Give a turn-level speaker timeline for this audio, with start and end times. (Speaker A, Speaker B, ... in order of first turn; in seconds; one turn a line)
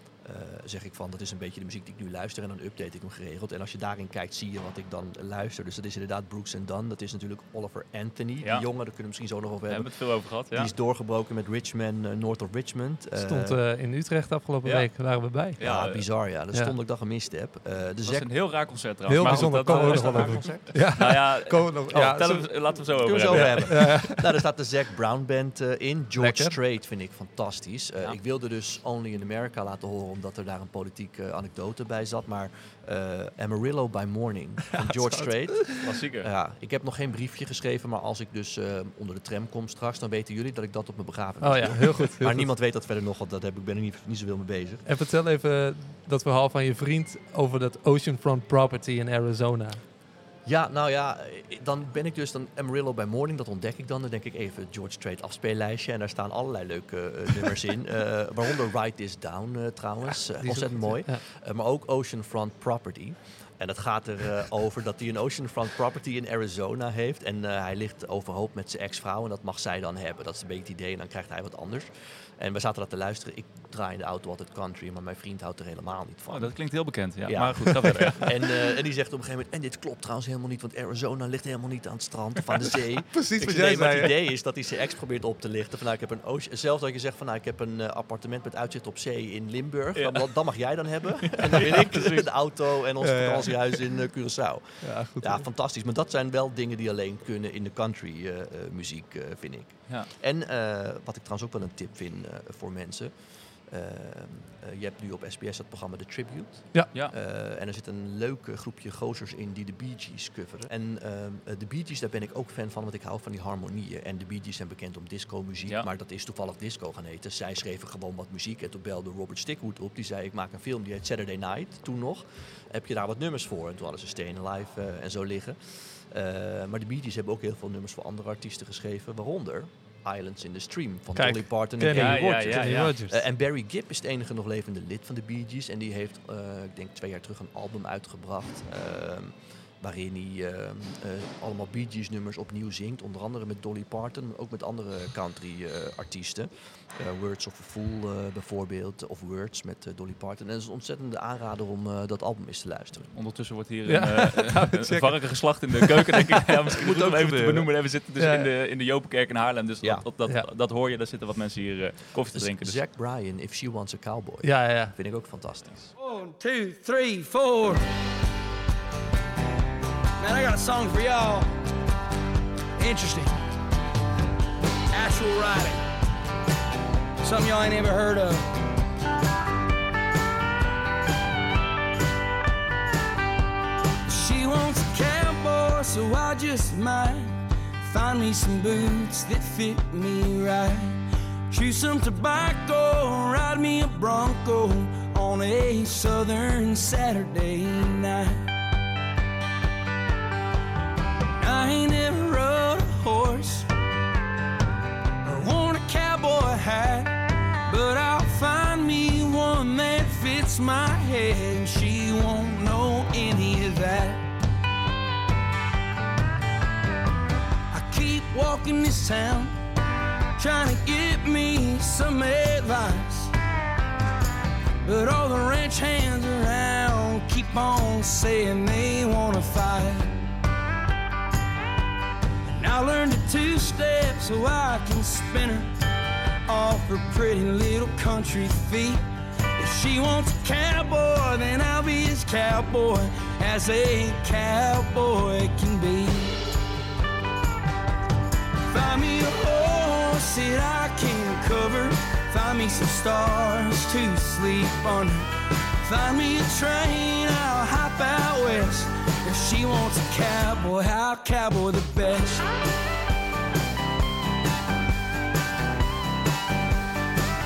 Speaker A: 0.2-9.9
Speaker B: 9.7-10.7
Speaker A: 10.5-13.6
Speaker C: 13.2-15.6
Speaker B: 14.6-14.9
Speaker B: 15.6-16.1
Speaker A: 15.6-18.3
Speaker B: 18.1-24.1
Speaker C: 19.1-24.3
Speaker A: 19.2-20.8
Speaker A: 21.9-22.2
Speaker A: 23.0-44.9
Speaker C: 26.2-26.6
Speaker C: 34.7-35.9
Speaker B: 35.8-36.3
Speaker C: 41.4-42.5
Speaker C: 44.9-49.8
Speaker A: 50.5-76.6
Speaker C: 60.1-61.2
Speaker B: 76.3-78.5
Speaker A: 77.3-103.1
Speaker C: 83.1-84.1
Speaker B: 90.0-90.2
Speaker B: 91.2-92.3
Speaker C: 93.0-93.5
Speaker C: 94.8-95.5
Speaker A: 103.7-153.1
Speaker C: 131.2-133.2
Speaker B: 131.9-132.9
Speaker B: 153.1-162.8
Speaker C: 153.9-156.4
Speaker A: 156.8-157.7
Speaker C: 158.2-158.5
Speaker A: 162.3-165.9
Speaker C: 164.4-164.9
Speaker D: 166.0-167.8
Speaker D: 170.2-171.5
Speaker D: 172.8-173.4
Speaker D: 174.9-175.8
Speaker D: 177.2-178.5
Speaker D: 184.1-198.5
Speaker D: 201.4-203.7
Speaker D: 205.2-214.2
Speaker D: 217.7-219.6
Speaker D: 220.4-223.3
Speaker D: 224.8-230.1
Speaker D: 232.5-235.7
Speaker D: 236.5-239.0
Speaker D: 239.6-246.4
Speaker D: 248.7-255.3
Speaker D: 255.8-262.4